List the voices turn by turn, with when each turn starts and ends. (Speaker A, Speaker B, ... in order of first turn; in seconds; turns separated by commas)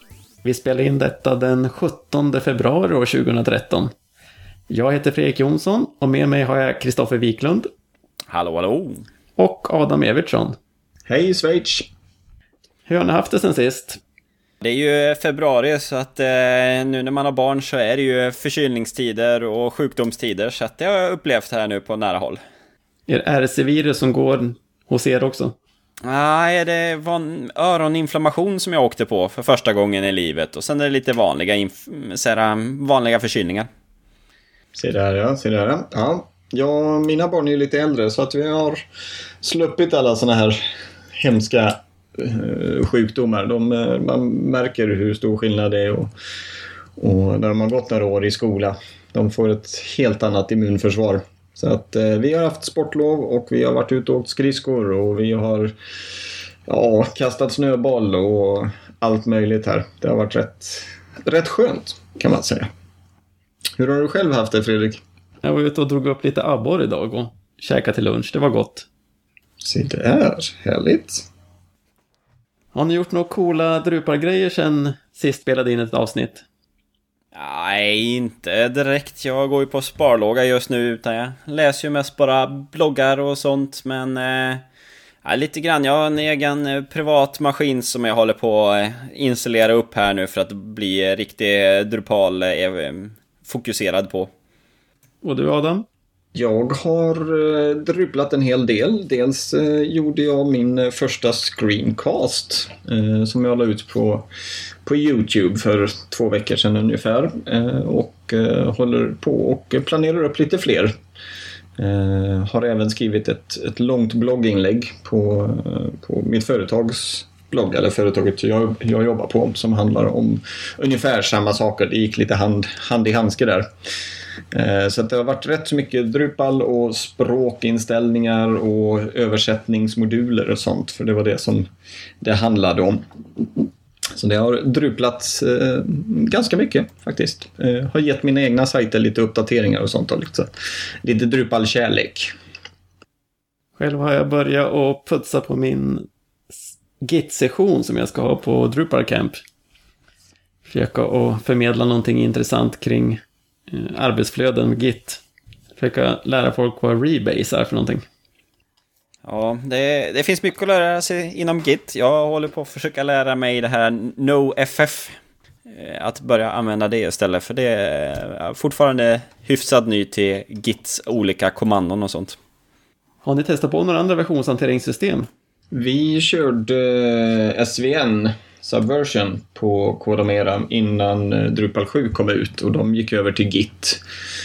Speaker A: 0.4-3.9, Speaker A: 4.7-7.7, Speaker B: 8.3-9.1, Speaker A: 9.4-10.6, Speaker C: 11.1-11.9, Speaker A: 12.9-14.0, Speaker B: 14.6-22.4, Speaker A: 23.1-25.6, Speaker B: 26.0-33.7, Speaker C: 34.7-38.8, Speaker C: 39.4-40.6, Speaker C: 41.1-46.1, Speaker C: 47.0-55.7, Speaker C: 56.6-62.7, Speaker C: 63.8-65.0, Speaker A: 65.4-68.9, Speaker C: 69.6-71.3, Speaker A: 72.7-76.4, Speaker B: 77.3-84.6, Speaker B: 85.2-94.3, Speaker A: 95.2-95.8, Speaker C: 96.3-104.3, Speaker C: 104.8-110.9, Speaker C: 111.8-123.7, Speaker C: 124.5-131.7, Speaker C: 132.2-133.6, Speaker C: 134.2-140.5, Speaker C: 141.0-142.3, Speaker A: 143.8-146.1, Speaker A: 147.0-149.4, Speaker A: 150.7-155.2, Speaker A: 155.8-158.0, Speaker B: 159.2-172.4, Speaker A: 173.2-175.3, Speaker C: 175.7-184.0